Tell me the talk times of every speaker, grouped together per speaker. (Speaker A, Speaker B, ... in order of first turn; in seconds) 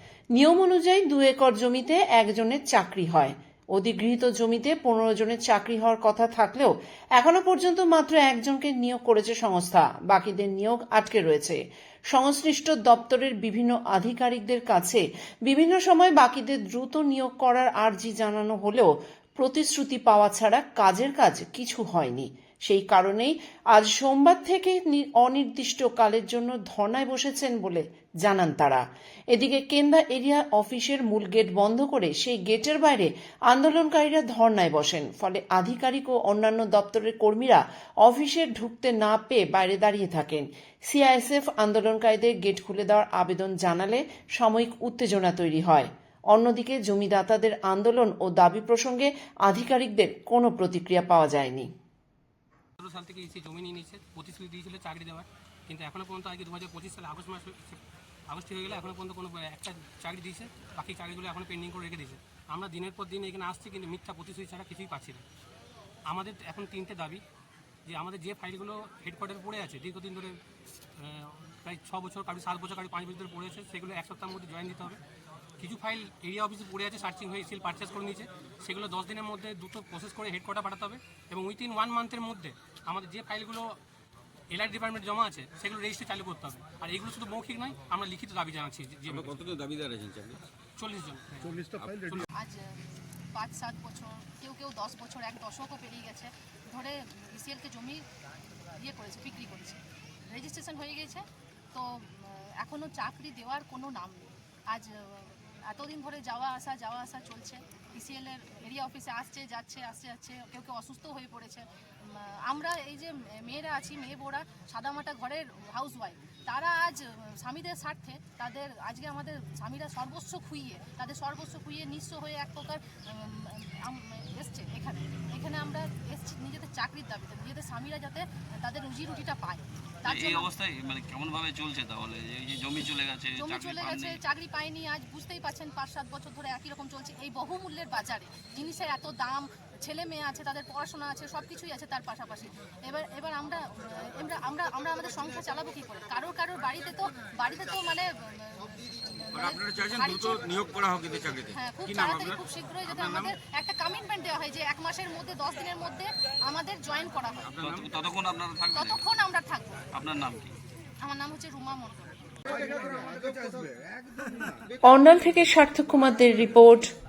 Speaker A: 0.3-51.7, 164.8-166.9
Speaker B: 52.8-65.2, 66.1-67.2, 67.9-70.4, 71.0-75.0, 75.6-83.8, 84.5-89.4, 90.8-92.3
Speaker C: 89.1-90.4, 149.3-153.3, 157.4-157.9
Speaker D: 92.3-98.1, 98.7-130.5, 133.3-150.5, 151.4-157.5, 158.7-159.9, 161.0-162.2
Speaker E: 130.1-134.2, 150.6-150.9, 157.6-159.0, 159.9-160.6